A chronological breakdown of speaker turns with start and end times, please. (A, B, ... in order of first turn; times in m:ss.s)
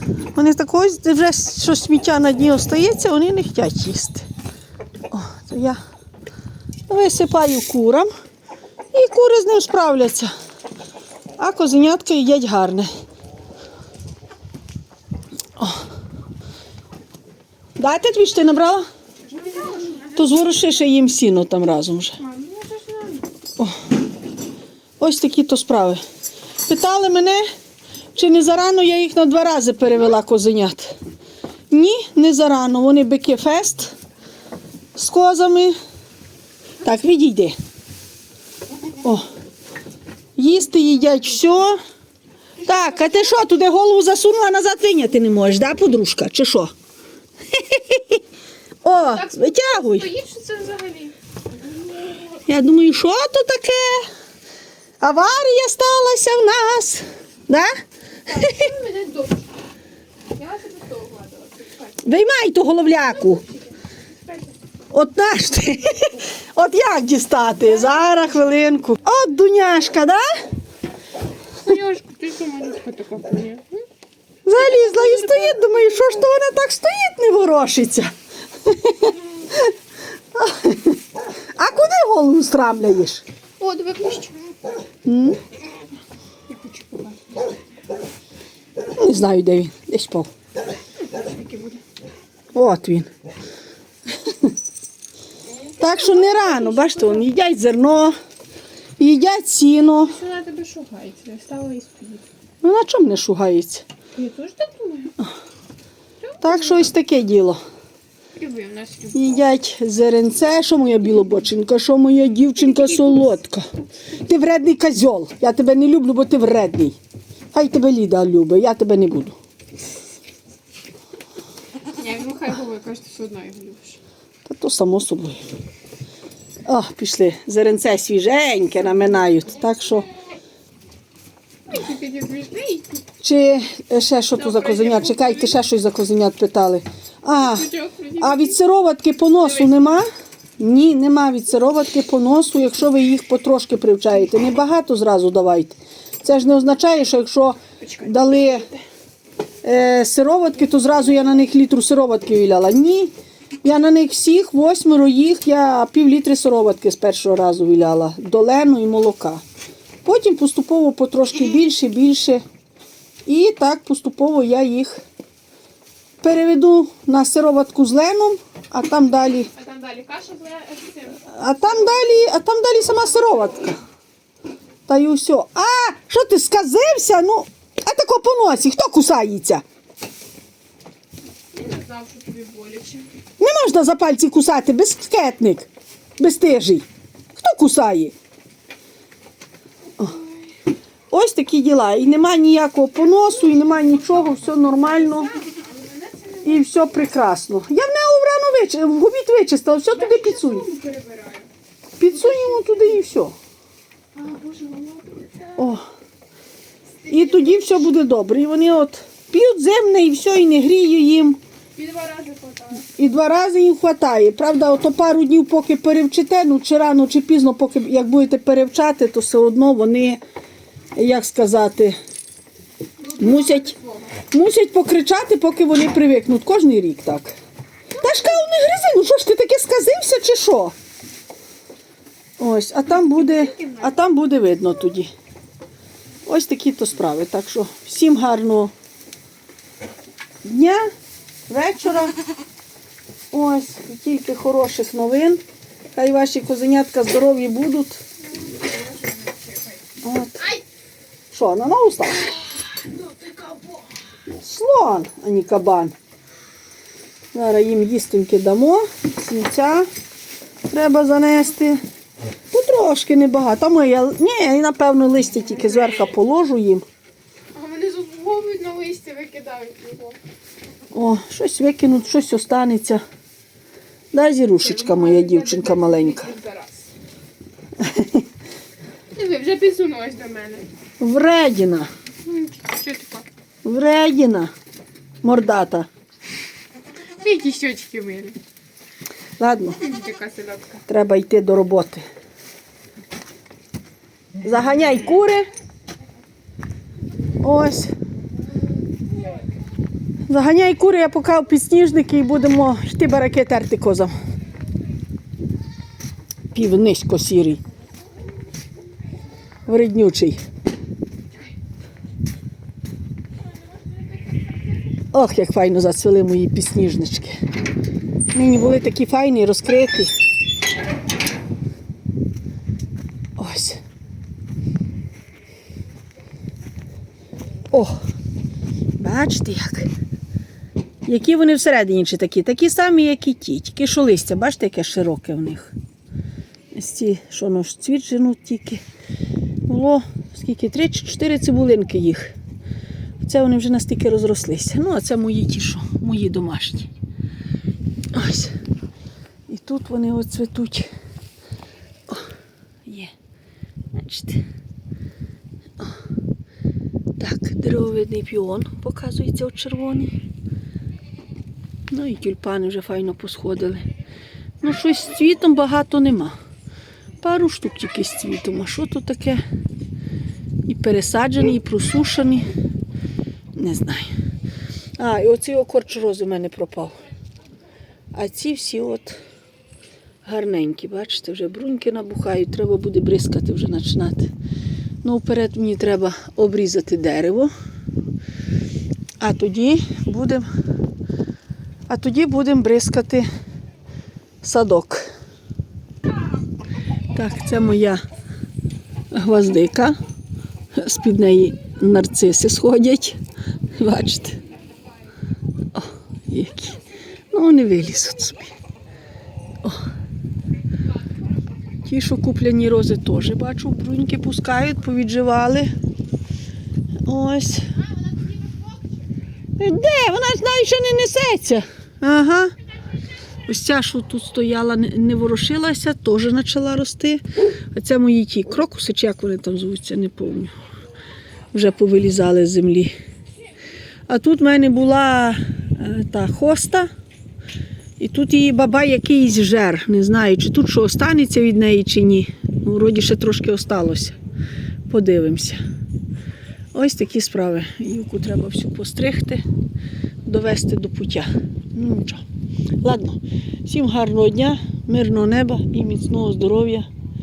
0:00.3-0:04.3 A
0:05.1-0:05.8 A
0:06.9-0:08.1 A
0:08.9-0:10.3 A
0:11.4-0:12.9 A
0:17.8-0:18.8 A
0:19.4-0:20.1 B
0:20.1-0:22.2 A
0:22.2-0:23.2 B
0:25.0-0:26.0 A
0:26.6-0:27.5 A
0:28.2-0:31.0 A
0:31.7-0:34.0 A
0:35.0-0:35.8 A
0:36.8-0:37.6 A
0:40.4-0:41.8 A
0:42.6-0:46.7 A
0:47.5-0:48.2 A
0:48.8-0:50.1 A
0:49.1-0:51.2 B
0:52.4-0:54.1 A
0:55.0-0:57.7 A
0:58.3-0:59.5 B
0:58.3-0:58.7 A
1:00.3-1:02.0 B
1:02.0-1:03.5 A
1:04.9-1:10.3 A
1:11.6-1:13.8 B
1:14.5-1:18.1 A
1:14.5-1:15.6 B
1:18.6-1:19.7 A
1:20.3-1:21.0 A
1:21.6-1:23.2 A
1:23.6-1:24.5 B
1:25.0-1:25.4 A
1:26.5-1:27.2 B
1:29.0-1:30.3 A
1:31.0-1:31.8 B
1:32.5-1:33.1 A
1:35.8-1:38.2 A
1:35.8-1:37.2 B
1:39.0-1:40.2 A
1:40.1-1:42.2 B
1:42.6-1:43.8 A
1:44.2-1:45.1 B
1:46.2-1:46.8 B
1:46.4-1:47.6 A
1:48.4-1:49.4 B
1:49.1-1:57.0 A
1:57.5-1:59.4 A
2:01.9-2:04.0 B
2:04.5-2:05.4 A
2:06.7-2:10.1 A
2:11.7-2:13.0 B
2:13.2-2:20.1 A
2:14.4-2:15.6 B
2:17.4-2:18.5 B
2:20.6-2:28.7 A
2:27.8-2:28.7 B
2:29.6-2:33.1 A
2:33.6-2:39.4 A
2:40.0-2:42.4 A
2:43.3-2:45.0 A
2:46.2-2:49.5 A
2:49.5-2:51.2 B
2:51.2-2:53.8 A
2:54.9-2:59.6 A
3:01.5-3:03.1 B
3:03.4-3:05.7 A
3:06.2-3:08.2 A
3:11.1-3:15.3 A
3:15.5-3:16.5 B
3:16.4-3:20.7 A
3:19.9-3:21.5 B
3:22.0-3:23.4 A
3:22.3-3:22.7 B
3:24.2-3:25.6 B
3:25.6-3:25.8 A
3:27.1-3:27.4 B
3:27.1-3:31.4 A
3:31.8-3:32.8 B
3:32.8-3:40.2 A
3:40.9-3:42.0 A
3:43.1-3:43.8 A
3:43.2-3:43.9 B
3:44.3-3:47.3 A
3:48.0-3:50.7 A
3:52.4-3:55.1 A
3:53.1-3:53.8 B
3:56.3-3:58.7 A
4:00.4-4:00.9 A
4:01.5-4:02.2 A
4:03.3-4:05.4 A
4:06.0-4:08.0 A
4:08.6-4:09.4 B
4:10.0-4:10.6 A
4:11.3-4:12.3 A
4:14.3-4:15.9 A
4:17.3-4:19.9 A
4:20.7-4:21.8 A
4:22.5-4:26.9 A
4:27.6-4:30.2 B
4:30.9-4:33.0 A
4:34.1-4:36.3 A
4:34.6-4:36.9 B
4:37.8-4:38.2 A
4:39.1-4:40.7 B
4:41.0-4:41.9 A
4:42.2-4:43.3 B
4:43.6-4:44.5 A
4:45.2-4:45.9 A
4:47.2-4:48.4 B
4:49.4-4:49.8 A
4:49.8-4:50.8 B
4:50.9-4:52.0 A
4:54.4-4:55.5 A
4:57.4-4:57.9 A
5:00.3-5:04.1 A
5:06.5-5:07.6 A
5:09.7-5:10.4 A
5:15.1-5:17.4 A
5:18.3-5:20.1 A
5:23.4-5:23.8 A
5:29.0-5:29.9 A
5:31.0-5:35.7 A
5:36.7-5:38.8 A
5:39.7-5:42.3 A
5:43.2-5:46.9 A
5:48.1-5:48.6 A
5:49.5-5:50.9 A
5:52.9-5:53.1 A
5:53.9-5:54.4 A
5:57.2-6:00.1 A
6:01.9-6:03.9 A
6:04.6-6:06.4 A
6:07.2-6:09.4 A
6:10.7-6:12.5 A
6:13.6-6:14.1 A
6:15.0-6:16.9 A
6:18.1-6:19.2 A
6:20.2-6:24.3 A
6:25.0-6:27.5 A
6:29.2-6:30.5 A
6:31.9-6:33.3 A
6:34.4-6:35.0 A
6:37.1-6:38.0 A
6:39.1-6:40.0 A
6:40.8-6:43.2 A
6:43.8-6:44.4 A
6:45.7-6:46.8 A
6:47.3-6:48.5 A
6:51.8-6:55.7 A
6:57.1-6:57.7 A
6:58.2-6:58.6 B
6:59.6-7:02.5 A
7:03.5-7:10.5 A
7:11.5-7:12.9 A
7:14.1-7:16.9 A
7:18.0-7:24.2 A
7:24.9-7:25.6 A
7:26.7-7:29.4 A
7:30.3-7:32.2 A
7:32.8-7:36.9 A